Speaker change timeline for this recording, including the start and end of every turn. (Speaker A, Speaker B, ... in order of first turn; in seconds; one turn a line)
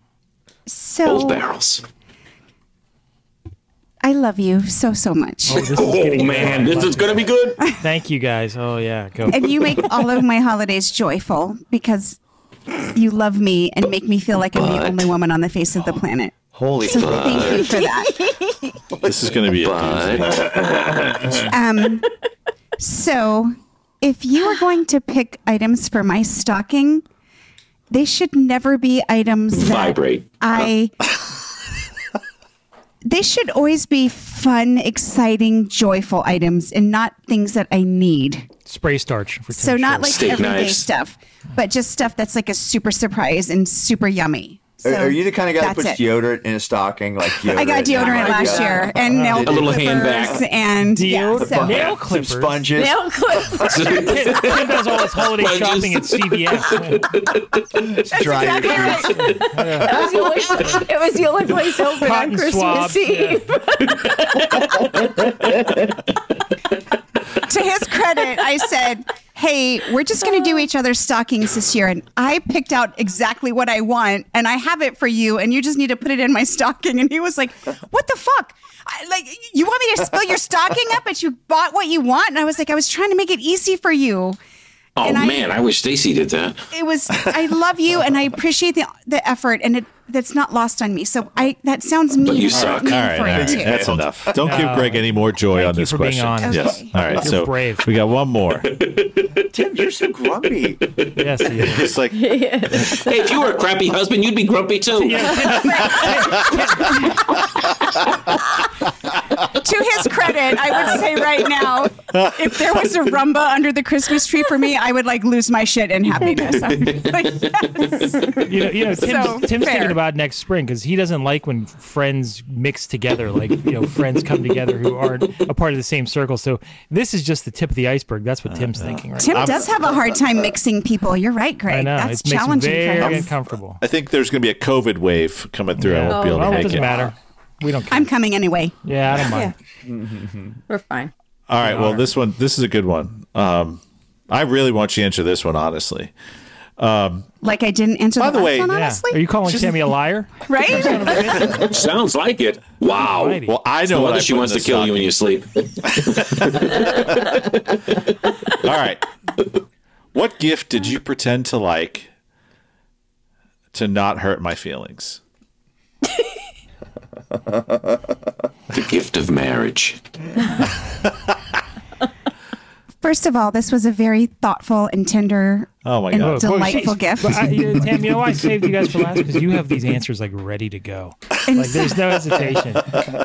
Speaker A: 0.7-1.4
Speaker B: 1.0-1.8
Speaker A: 4.0-5.8
Speaker C: 5.5-9.5
Speaker B: 5.6-7.6
Speaker A: 9.3-12.2
Speaker A: 12.8-18.7
Speaker B: 14.6-14.9
Speaker D: 16.5-17.8
Speaker B: 17.0-17.6
Speaker D: 18.9-21.5
Speaker E: 19.0-20.4
Speaker B: 19.6-20.7
Speaker A: 21.5-22.1
Speaker A: 22.8-27.0
Speaker A: 27.9-30.9
Speaker B: 29.5-30.3
Speaker A: 33.0-38.5
Speaker C: 38.6-40.2
Speaker A: 39.5-46.0
Speaker B: 40.0-40.9
Speaker D: 44.8-50.4
Speaker A: 47.4-51.8
Speaker B: 48.0-48.6
Speaker C: 49.0-49.4
Speaker B: 49.3-50.4
Speaker C: 50.9-52.7
Speaker D: 51.3-54.1
Speaker F: 52.7-54.1
Speaker B: 53.6-57.4
Speaker C: 53.9-57.0
Speaker D: 57.8-59.4
Speaker A: 58.1-59.3
Speaker F: 58.6-64.5
Speaker C: 59.3-60.0
Speaker D: 60.0-60.3
Speaker C: 62.0-63.4
Speaker A: 67.4-84.4
Speaker F: 70.3-70.6
Speaker B: 85.0-86.6
Speaker A: 85.0-85.4
Speaker A: 86.7-94.0
Speaker B: 92.2-93.2
Speaker D: 92.6-94.4
Speaker E: 92.8-98.7
Speaker C: 94.4-97.9
Speaker A: 96.4-97.2
Speaker B: 98.6-99.3
Speaker D: 99.5-100.8
Speaker B: 100.8-101.1
Speaker C: 101.2-101.9
Speaker E: 101.7-102.3
Speaker F: 102.1-103.5
Speaker B: 102.9-105.3
Speaker C: 105.0-107.0
Speaker A: 105.4-107.4
Speaker E: 105.7-106.3
Speaker A: 109.4-120.0
Speaker E: 112.1-112.5
Speaker C: 118.4-129.4
Speaker E: 128.5-129.7
Speaker A: 129.2-133.3
Speaker C: 131.7-133.8
Speaker E: 133.0-133.3
Speaker E: 133.8-137.1
Speaker C: 135.8-138.1
Speaker F: 136.1-137.0
Speaker A: 137.9-138.7
Speaker C: 138.8-139.5
Speaker D: 139.9-140.5
Speaker F: 140.7-141.1
Speaker E: 141.5-146.1
Speaker C: 141.6-142.1
Speaker E: 146.8-147.3
Speaker A: 147.4-149.2
Speaker E: 148.2-148.8
Speaker C: 148.7-151.6
Speaker A: 150.4-151.3
Speaker B: 151.6-157.0
Speaker C: 152.8-153.6
Speaker E: 153.4-155.1
Speaker E: 155.9-157.4
Speaker E: 158.6-159.0
Speaker E: 160.1-162.1
Speaker E: 163.7-165.2
Speaker B: 168.7-170.0
Speaker A: 173.0-177.7
Speaker E: 175.8-176.9
Speaker C: 176.2-183.0
Speaker E: 177.9-178.4
Speaker A: 181.4-182.0